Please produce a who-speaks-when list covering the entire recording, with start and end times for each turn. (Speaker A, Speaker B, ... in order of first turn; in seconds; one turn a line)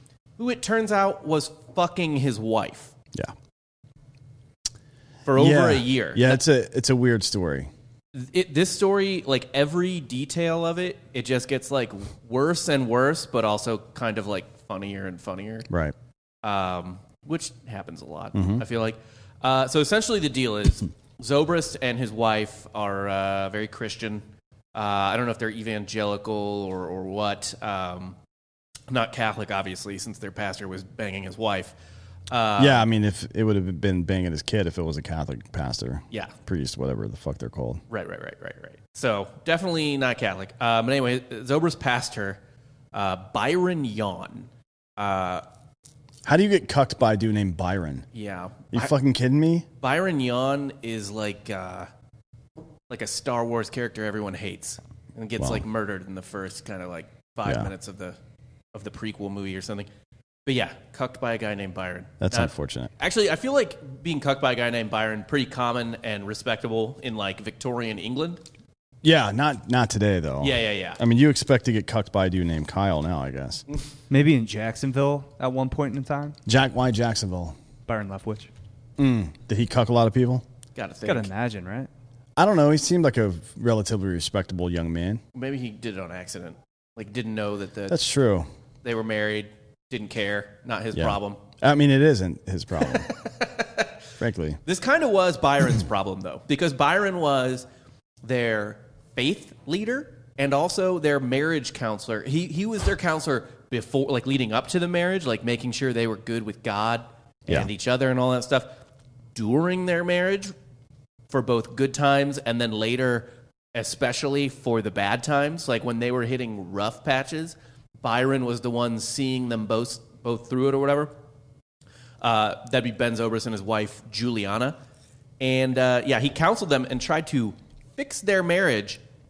Speaker A: 0.4-3.0
Speaker A: 5.3-6.4
Speaker B: 5.4-7.7
Speaker A: 8.1-15.7
Speaker B: 15.7-15.9
Speaker A: 16.4-28.2
Speaker B: 18.3-18.6
Speaker A: 28.9-31.8
Speaker A: 32.3-32.8
Speaker B: 32.6-37.8
Speaker A: 37.9-42.4
Speaker A: 42.9-45.4
Speaker B: 46.2-48.1
Speaker A: 48.1-48.9
Speaker B: 48.7-49.7
Speaker A: 49.8-51.9
Speaker A: 52.9-58.2
Speaker B: 57.5-57.7
Speaker A: 58.7-59.9
Speaker A: 60.5-68.4
Speaker B: 62.2-62.9
Speaker B: 69.0-73.6
Speaker A: 70.4-71.0
Speaker C: 74.1-76.4
Speaker B: 76.5-77.6
Speaker C: 77.9-78.5
Speaker B: 79.0-80.4
Speaker A: 80.8-81.3
Speaker C: 81.0-81.9
Speaker B: 82.4-85.2
Speaker A: 85.3-88.0
Speaker B: 87.9-88.5
Speaker A: 88.8-91.4
Speaker B: 90.9-93.1
Speaker B: 94.2-94.6
Speaker A: 94.7-97.7
Speaker A: 98.2-108.8
Speaker A: 109.3-110.5
Speaker A: 111.3-121.1
Speaker A: 122.2-124.8
Speaker A: 125.4-129.0